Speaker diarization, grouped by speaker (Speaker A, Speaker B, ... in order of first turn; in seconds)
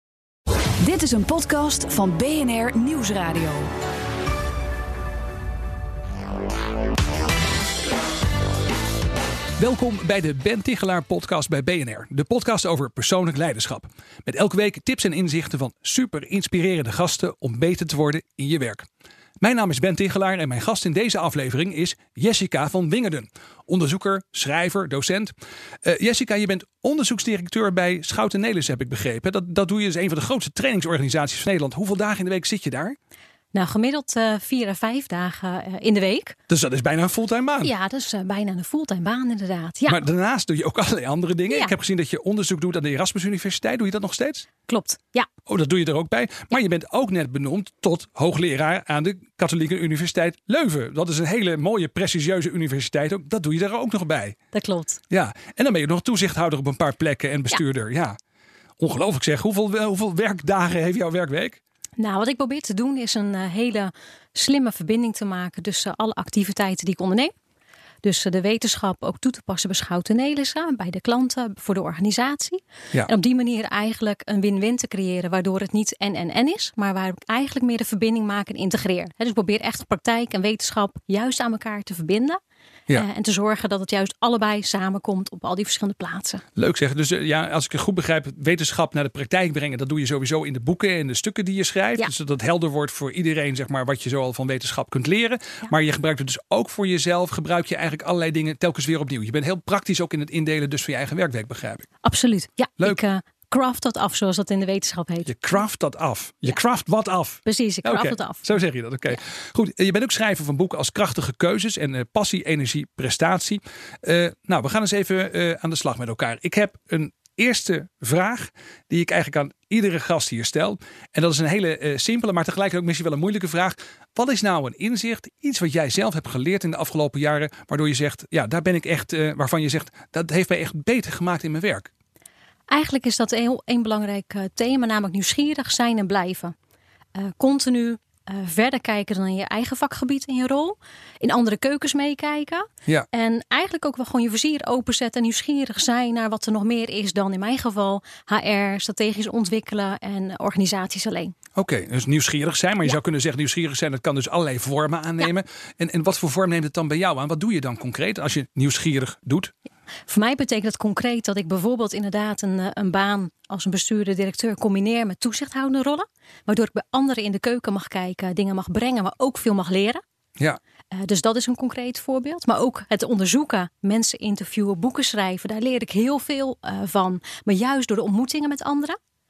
Speaker A: 0.8-3.7
Speaker B: 9.6-18.9, 19.4-25.3, 25.8-33.0, 36.5-37.7, 39.9-44.5, 45.5-54.4, 55.1-58.1, 58.8-61.6, 86.6-101.9, 105.3-131.9, 151.6-159.5
Speaker C: 33.5-36.3, 37.6-40.0, 44.7-45.3, 54.5-55.0, 62.0-67.3, 68.0-82.4, 82.9-86.4, 102.0-105.3, 107.4-108.5, 132.7-136.5, 137.1-151.3, 160.1-170.0, 170.9-178.9